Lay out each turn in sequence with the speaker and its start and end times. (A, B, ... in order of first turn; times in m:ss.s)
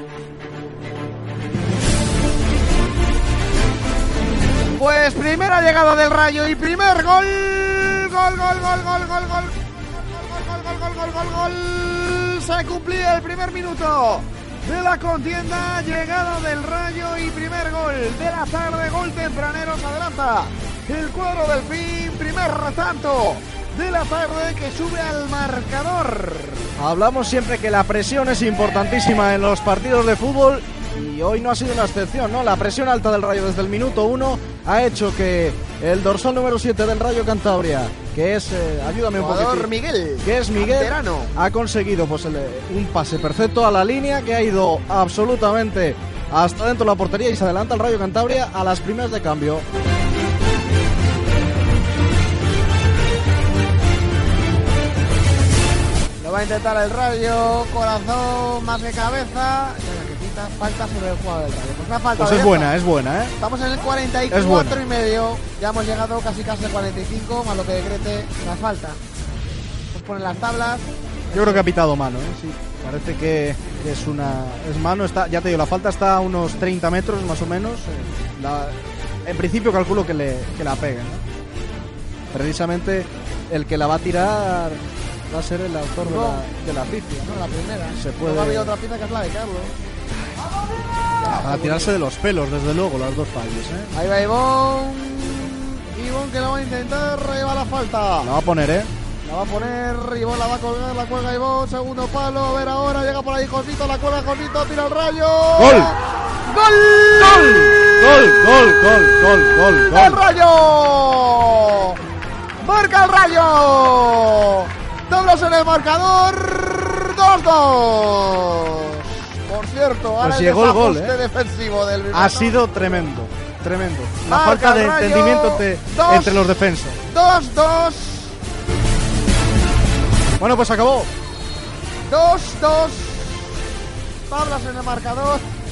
0:04.7-0:26.7 A
0:26.8-0:39.7 B
0:39.1-0:41.3 A
0:40.2-0:49.6 B
0:56.2-1:02.8 A
1:02.2-1:03.3 B
1:03.4-1:09.0 A
1:04.3-1:04.8 B
1:09.9-1:11.6 A
1:11.3-1:21.2 B
1:22.3-1:27.4 B
1:26.0-1:26.4 A
1:27.2-1:29.7 A
1:28.0-1:28.7 B
1:31.2-1:32.0 A
1:31.3-1:33.9 B
1:33.9-1:38.3 A
1:38.2-1:38.9 B
1:39.2-1:48.4 A
1:45.6-1:45.9 B
1:47.2-1:50.2 B
1:49.9-1:52.0 A
1:52.6-2:03.1 A
2:00.2-2:01.2 B
2:02.1-2:07.0 B
2:04.2-2:08.4 A
2:10.4-2:11.1 B
2:12.1-2:13.6 A
2:14.3-2:15.4 A